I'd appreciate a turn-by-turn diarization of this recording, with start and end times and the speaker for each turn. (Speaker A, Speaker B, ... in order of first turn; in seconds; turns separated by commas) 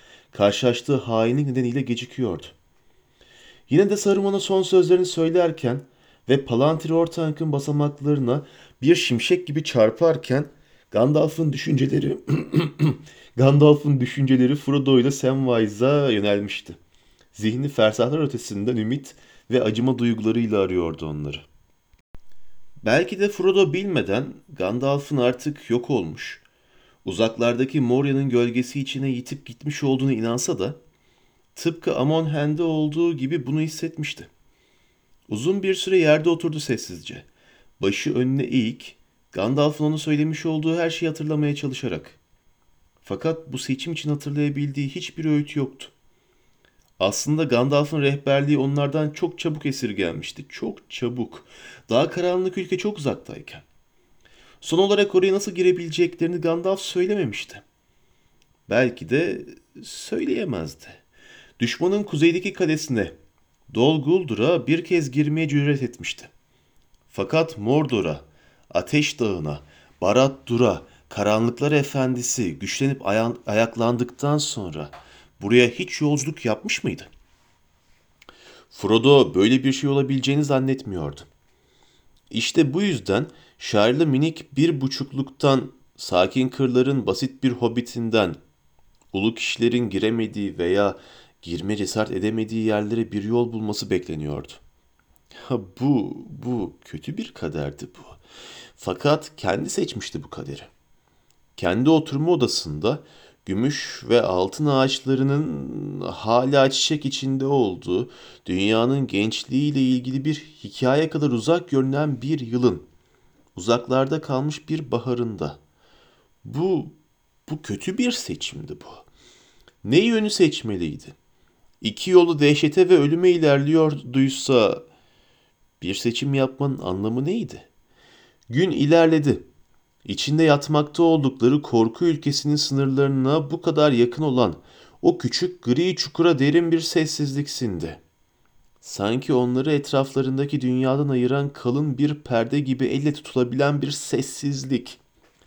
Speaker A: 0.3-2.5, Speaker A: 3.7-16.8, Speaker A: 17.3-21.4, Speaker A: 22.8-26.4, Speaker A: 27.0-30.8, Speaker A: 31.5-34.3, Speaker A: 35.3-37.2, Speaker A: 37.8-42.2, Speaker A: 43.0-45.9, Speaker A: 47.0-53.6, Speaker A: 54.6-57.6, Speaker A: 58.7-61.0, Speaker A: 61.6-63.1, Speaker A: 63.7-66.3, Speaker A: 67.1-77.1, Speaker A: 78.7-81.3, Speaker A: 82.3-88.4, Speaker A: 89.1-94.6, Speaker A: 95.3-98.2, Speaker A: 98.8-100.7, Speaker A: 101.5-112.8, Speaker A: 113.5-115.6, Speaker A: 116.4-117.0, Speaker A: 117.5-119.0, Speaker A: 119.8-121.2, Speaker A: 121.8-124.8, Speaker A: 125.8-127.7, Speaker A: 128.5-129.4, Speaker A: 130.0-138.0, Speaker A: 138.8-145.0